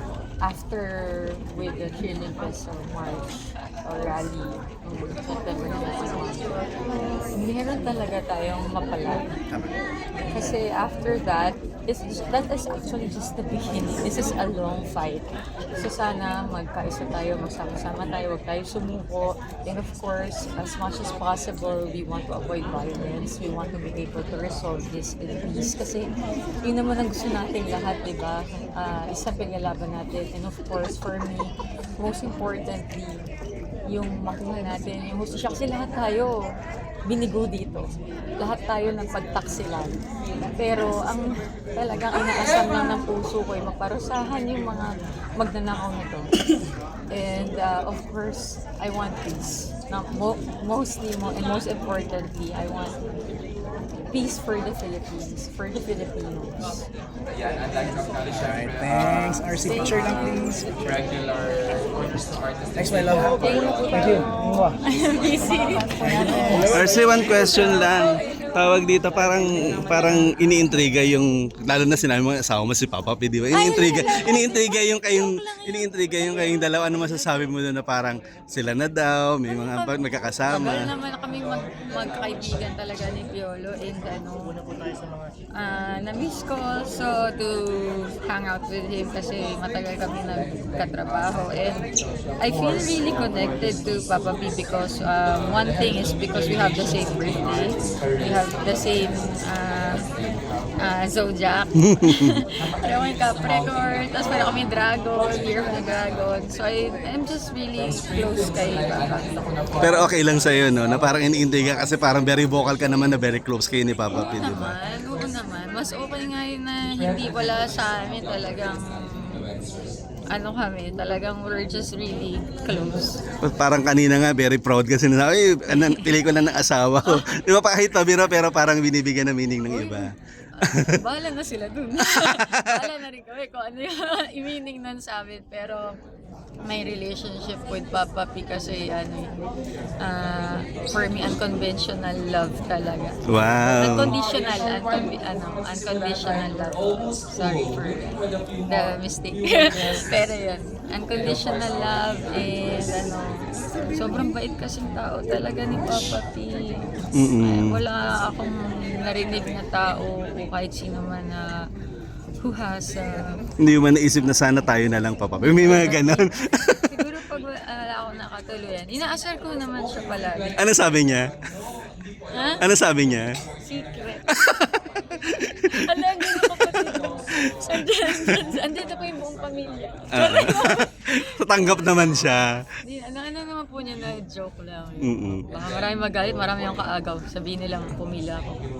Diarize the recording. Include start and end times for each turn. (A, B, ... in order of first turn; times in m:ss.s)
0:00.4-0:03.3 A
0:03.8-0:06.5 A
0:07.3-0:09.2 A
0:10.3-0:26.1 A
0:26.6-0:33.3 A
0:33.9-0:36.4 A
0:37.0-0:37.9 A
0:38.4-0:40.0 A
0:40.5-0:46.3 A
0:47.1-0:52.9 A
0:54.1-0:56.8 A
0:58.4-1:00.6 B
0:59.6-1:00.8 A
1:02.8-1:03.4 B
1:03.4-1:08.9 A
1:03.9-1:04.8 B
1:06.0-1:06.9 B
1:06.7-1:20.9 C
1:13.5-1:17.5 A
1:19.5-1:24.5 A
1:25.5-1:31.9 A
1:32.4-1:40.0 A
1:40.8-1:49.5 A
1:41.9-1:42.3 C
1:49.8-1:54.7 C
1:54.1-1:59.5 A
2:00.3-2:03.2 A
2:03.5-2:10.1 C
2:05.7-2:06.1 A
2:07.0-2:07.3 A
2:09.7-2:15.8 A
2:16.6-2:19.3 A
2:20.0-2:23.2 A
2:23.3-2:24.1 C
2:23.8-2:28.1 A
2:28.6-2:41.6 A
2:37.1-2:37.8 C
2:42.4-2:43.3 A
2:43.6-2:46.8 C
2:45.4-2:46.2 A
2:46.8-2:50.6 A
2:50.6-2:51.3 C
2:52.3-2:52.6 A
2:52.6-2:53.3 C
2:53.6-2:54.3 A
2:54.4-2:54.8 C
2:55.4-2:55.7 C
2:55.6-3:02.2 A
3:00.1-3:02.6 C
3:02.8-3:08.6 A
3:05.0-3:05.4 C